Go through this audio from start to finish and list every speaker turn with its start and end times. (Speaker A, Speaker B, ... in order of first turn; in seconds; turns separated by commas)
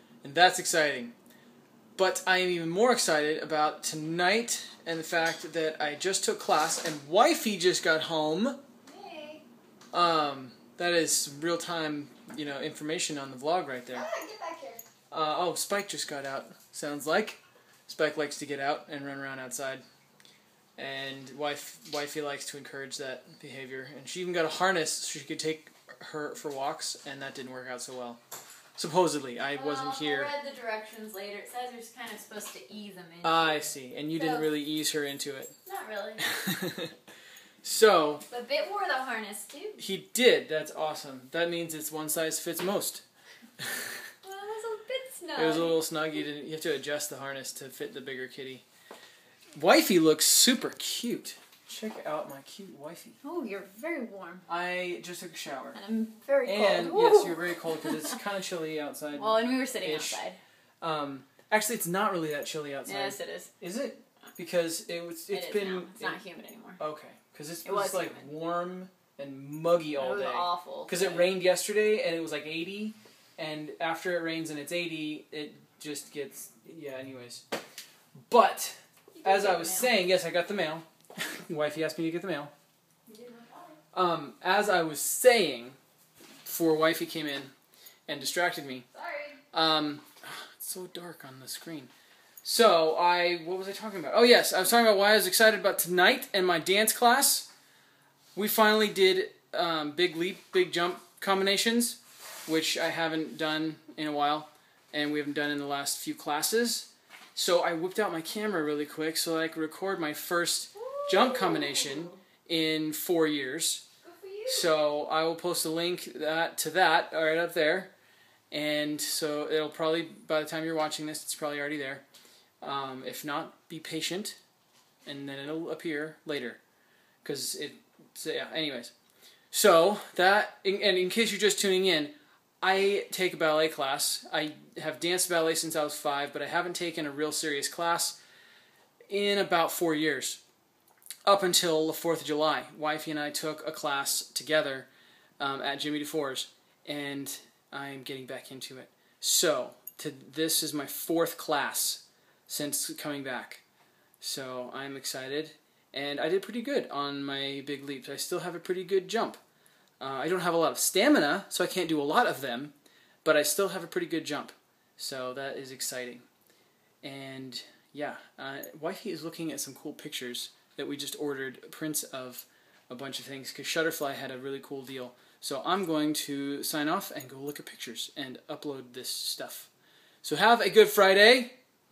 Speaker A: 0.2-1.1, Speaker A: 2.0-8.6, Speaker B: 8.9-9.4, Speaker A: 9.9-14.1, Speaker B: 13.9-14.8, Speaker A: 15.1-19.8, Speaker A: 20.8-28.2, Speaker A: 28.8-30.3, Speaker B: 29.5-34.5, Speaker A: 33.2-35.5, Speaker B: 35.6-36.3, Speaker A: 36.3-36.9, Speaker A: 37.6-38.2, Speaker B: 38.3-39.8, Speaker A: 39.8-43.0, Speaker B: 44.2-45.8, Speaker A: 45.4-48.6, Speaker A: 49.5-53.2, Speaker B: 53.2-54.5, Speaker A: 54.5-55.8, Speaker B: 55.7-58.2, Speaker A: 56.4-60.2, Speaker B: 59.1-60.4, Speaker A: 60.8-66.2, Speaker B: 62.9-63.5, Speaker B: 65.3-66.8, Speaker A: 66.8-77.4, Speaker B: 67.7-68.3, Speaker B: 70.0-71.3, Speaker A: 78.3-82.5, Speaker B: 79.2-79.9, Speaker B: 83.1-83.8, Speaker A: 83.9-85.8, Speaker A: 86.5-87.5, Speaker A: 88.1-88.9, Speaker B: 88.9-89.4, Speaker A: 89.5-91.9, Speaker A: 92.4-97.5, Speaker A: 98.3-113.8, Speaker B: 110.8-112.2, Speaker B: 114.0-114.8, Speaker A: 114.5-117.9, Speaker A: 118.5-122.0, Speaker A: 122.6-124.4, Speaker A: 125.0-126.6, Speaker A: 127.2-128.9, Speaker A: 129.5-138.2, Speaker A: 139.1-140.4, Speaker A: 141.2-144.9, Speaker A: 145.4-153.6, Speaker A: 154.2-159.4, Speaker A: 160.0-166.3, Speaker A: 167.0-179.7, Speaker A: 180.2-181.6